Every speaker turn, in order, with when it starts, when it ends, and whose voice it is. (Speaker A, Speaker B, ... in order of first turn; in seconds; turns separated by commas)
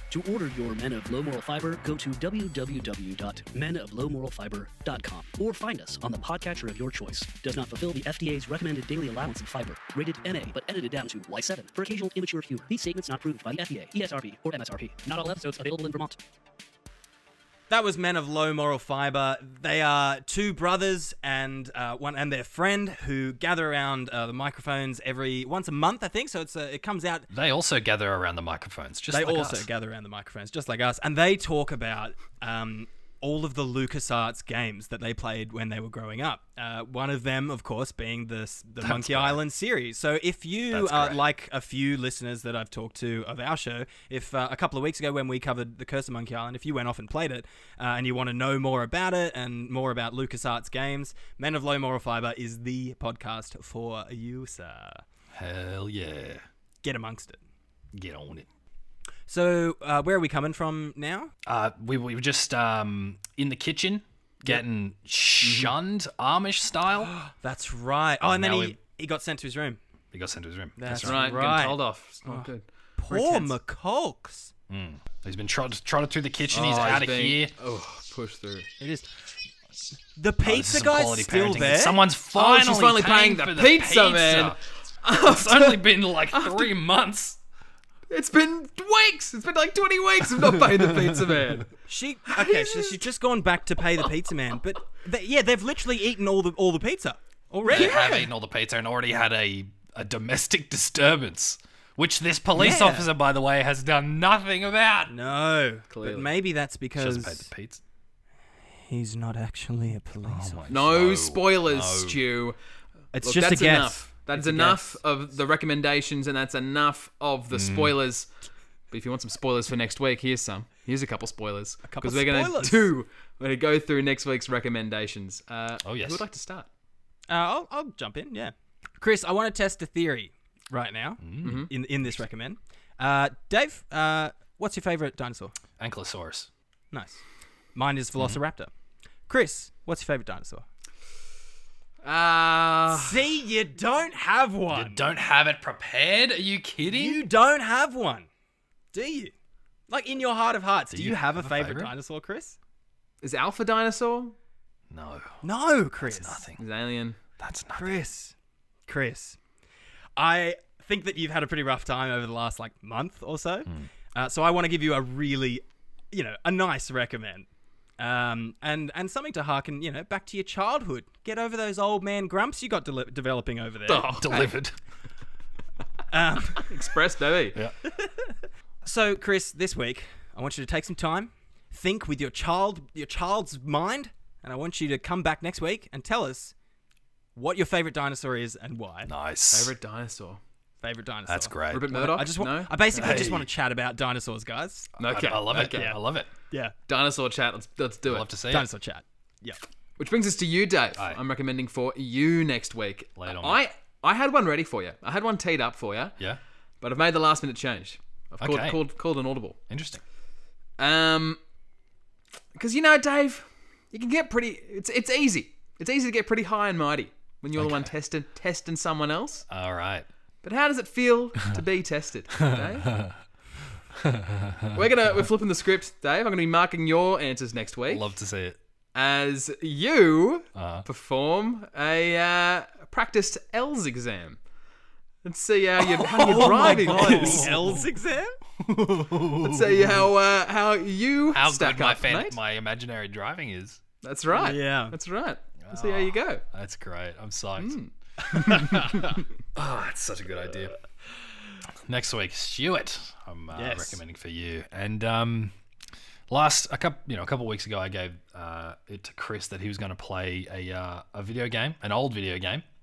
Speaker A: 0.1-16.2, Speaker B: 17.7-27.3, Speaker C: 27.3-29.7, Speaker B: 29.1-55.0, Speaker C: 38.8-39.4, Speaker C: 40.7-41.2, Speaker C: 55.3-56.4, Speaker B: 56.8-57.4, Speaker C: 57.9-58.5, Speaker B: 59.3-61.3, Speaker C: 61.4-67.1, Speaker D: 65.4-65.7, Speaker B: 67.0-69.8, Speaker C: 68.2-68.8, Speaker C: 70.1-71.2, Speaker B: 70.8-74.5, Speaker D: 71.0-73.5, Speaker C: 74.7-77.5, Speaker D: 76.5-78.7, Speaker B: 78.8-79.1, Speaker B: 80.2-82.0, Speaker C: 80.4-87.4, Speaker D: 82.3-86.7, Speaker D: 88.1-91.7, Speaker B: 91.9-98.0, Speaker D: 92.4-92.8, Speaker D: 97.7-98.3, Speaker C: 97.7-105.1, Speaker B: 102.5-103.1, Speaker B: 105.1-107.5, Speaker D: 105.9-106.3, Speaker C: 107.0-107.8, Speaker B: 108.7-110.6, Speaker C: 110.2-112.2, Speaker D: 110.7-112.6, Speaker B: 113.1-115.0, Speaker D: 113.2-118.3, Speaker C: 117.5-118.0, Speaker D: 118.9-126.7, Speaker B: 121.8-122.9, Speaker C: 125.8-126.2, Speaker B: 127.3-135.5, Speaker C: 131.2-131.7, Speaker D: 131.4-131.7, Speaker C: 135.8-136.5, Speaker B: 136.9-137.2, Speaker B: 137.7-138.7, Speaker B: 139.3-140.7, Speaker D: 142.0-143.2, Speaker B: 142.9-145.1, Speaker C: 144.7-147.2, Speaker B: 146.9-148.3, Speaker B: 148.9-149.3, Speaker B: 149.9-152.6, Speaker C: 150.9-151.9, Speaker D: 153.2-154.3, Speaker C: 154.9-155.4, Speaker B: 155.4-156.4, Speaker C: 156.0-156.6, Speaker D: 156.6-157.2, Speaker C: 157.4-158.0, Speaker B: 157.7-158.3, Speaker B: 158.9-159.4, Speaker B: 160.2-167.5, Speaker B: 168.0-174.2, Speaker D: 173.9-174.6, Speaker C: 174.2-174.7, Speaker B: 176.1-176.6, Speaker D: 176.6-177.6, Speaker B: 178.8-186.5, Speaker B: 187.3-189.1, Speaker C: 189.0-189.7, Speaker D: 189.5-190.4, Speaker B: 190.8-194.9, Speaker C: 191.3-191.9, Speaker D: 191.7-193.3, Speaker C: 192.9-193.5, Speaker D: 195.0-195.9, Speaker C: 195.0-196.3, Speaker B: 195.6-195.9, Speaker D: 196.9-198.3, Speaker C: 198.0-198.7, Speaker B: 198.5-199.6, Speaker D: 200.0-206.1, Speaker C: 200.9-201.2, Speaker C: 203.2-203.6, Speaker D: 206.8-209.6, Speaker C: 208.4-208.8, Speaker C: 209.7-210.0, Speaker D: 210.8-211.4, Speaker D: 212.6-219.4, Speaker C: 217.6-217.9, Speaker C: 219.5-220.1, Speaker D: 220.4-223.0, Speaker C: 222.4-223.2, Speaker C: 224.0-224.8, Speaker D: 224.7-228.1, Speaker C: 227.9-228.6, Speaker D: 228.9-234.4, Speaker C: 230.5-230.8, Speaker D: 235.2-237.8, Speaker C: 235.8-237.8, Speaker B: 236.2-238.3, Speaker C: 238.6-239.8, Speaker D: 239.4-242.4, Speaker C: 241.3-243.8, Speaker D: 244.0-246.4, Speaker B: 244.3-244.9, Speaker C: 245.6-247.8, Speaker D: 247.6-249.2, Speaker C: 249.5-250.7, Speaker C: 251.8-255.5, Speaker B: 253.5-254.0, Speaker C: 256.3-262.6